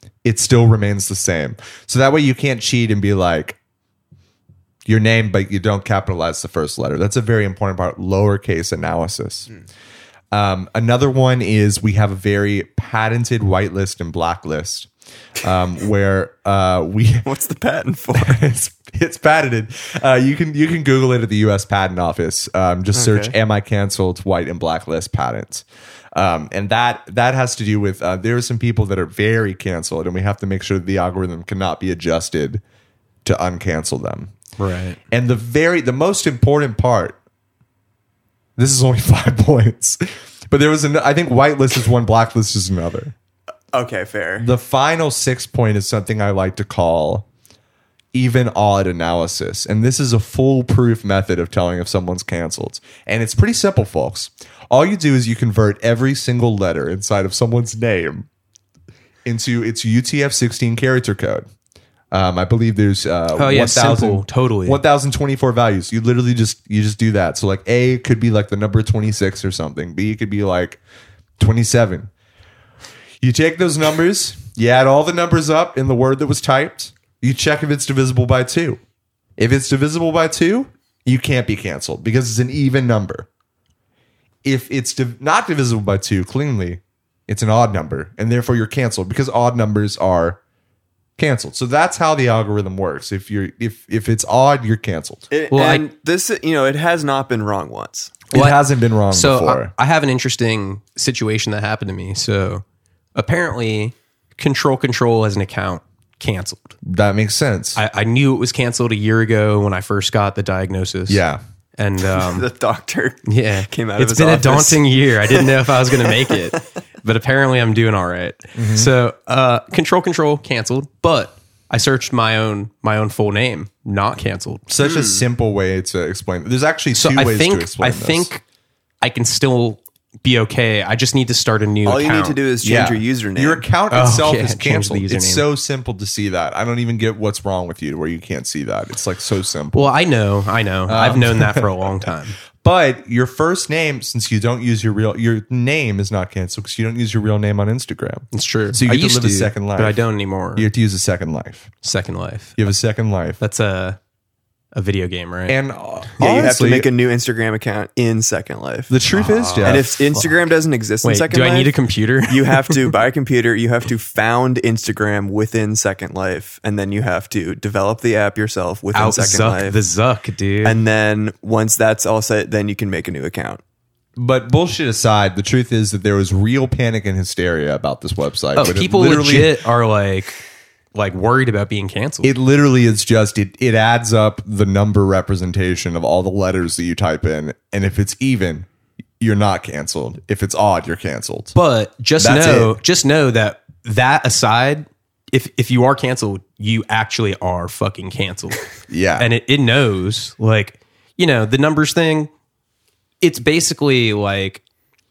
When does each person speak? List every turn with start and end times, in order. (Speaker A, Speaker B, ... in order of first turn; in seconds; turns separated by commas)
Speaker A: 0.2-3.6, Speaker A: 4.9-9.5, Speaker A: 10.3-14.9, Speaker A: 15.4-17.3, Speaker B: 17.2-18.4, Speaker A: 18.1-32.6, Speaker B: 22.9-23.4, Speaker A: 33.2-34.3, Speaker C: 34.6-35.0, Speaker A: 35.1-37.2, Speaker A: 38.6-43.1, Speaker B: 43.7-44.5, Speaker A: 44.4-47.3, Speaker A: 48.1-58.3, Speaker A: 59.2-61.5, Speaker A: 62.1-70.8, Speaker C: 63.4-64.8, Speaker A: 71.4-72.1, Speaker A: 73.2-78.8, Speaker A: 79.4-83.3, Speaker A: 84.4-90.4, Speaker A: 91.2-95.3, Speaker B: 95.3-98.2, Speaker C: 95.5-95.8, Speaker A: 98.3-99.7, Speaker C: 98.3-102.6, Speaker C: 103.2-106.7, Speaker A: 106.8-107.8, Speaker C: 107.8-111.2, Speaker A: 111.1-111.4, Speaker C: 111.8-112.5, Speaker B: 112.2-116.6, Speaker C: 113.3-125.1, Speaker A: 118.5-118.9, Speaker A: 124.7-128.3, Speaker C: 126.9-128.4, Speaker C: 129.0-132.4, Speaker B: 131.8-133.7, Speaker A: 132.6-139.9, Speaker C: 133.9-135.5, Speaker C: 139.7-142.4, Speaker A: 140.9-141.9, Speaker A: 142.6-150.0, Speaker C: 148.3-150.7, Speaker A: 150.6-151.7, Speaker C: 151.8-152.6, Speaker A: 152.6-153.4, Speaker C: 153.4-154.0, Speaker C: 154.7-155.6, Speaker A: 155.5-156.9, Speaker B: 156.2-159.0, Speaker A: 158.9-160.1, Speaker C: 159.1-160.2, Speaker B: 159.6-161.8, Speaker C: 161.0-162.8, Speaker B: 162.3-169.8, Speaker C: 168.9-170.8, Speaker B: 170.6-173.6, Speaker A: 174.2-179.6, Speaker C: 178.6-180.4, Speaker C: 180.9-182.3, Speaker A: 182.2-188.7, Speaker A: 189.2-191.5, Speaker C: 191.5-198.7, Speaker A: 192.2-192.8, Speaker A: 198.9-199.3, Speaker C: 199.2-202.3, Speaker C: 203.2-204.6